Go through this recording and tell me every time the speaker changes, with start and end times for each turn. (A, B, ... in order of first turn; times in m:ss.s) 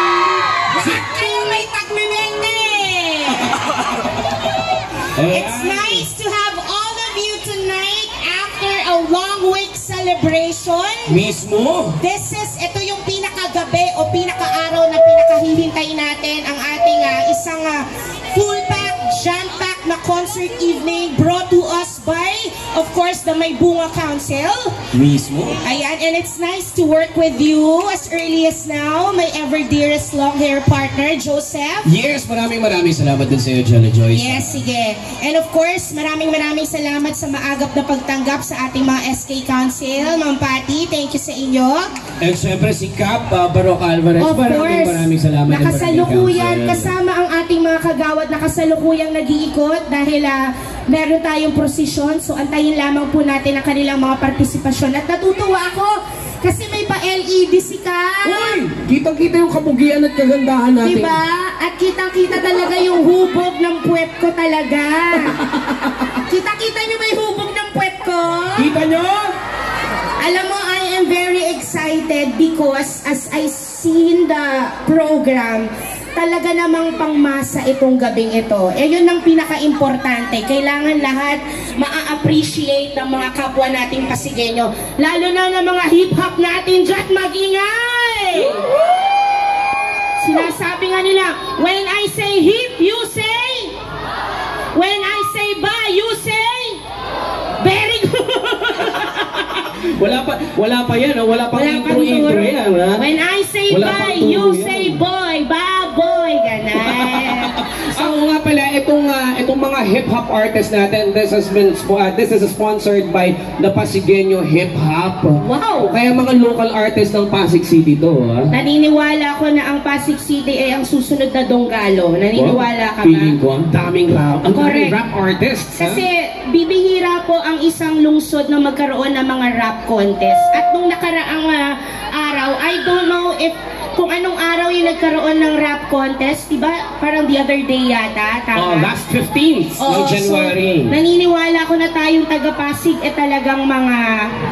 0:00.5-0:03.7 A
0:05.2-0:06.1 B
0:05.3-0:11.2 A
0:11.1-0:12.0 B
0:12.0-0:24.8 A
0:24.9-0:25.6 B
0:25.6-0:31.9 A
0:31.8-0:34.6 B
0:34.1-0:41.9 A
0:42.2-0:46.9 B
0:44.2-0:58.6 A
0:58.2-1:01.2 B
1:00.8-1:05.4 A
1:06.2-1:08.7 A
1:08.6-1:09.3 B
1:10.2-1:28.7 A
1:30.2-1:33.8 A
1:34.7-1:36.8 A
1:37.6-1:39.2 A
1:38.9-1:43.1 B
1:41.5-1:48.1 A
1:43.7-1:45.0 B
1:46.8-1:58.5 B
1:55.4-1:56.0 A
1:58.5-2:03.4 A
2:02.3-2:06.0 B
2:04.5-2:05.0 A
2:05.8-2:18.9 A
2:18.6-2:20.9 B
2:19.8-2:24.3 A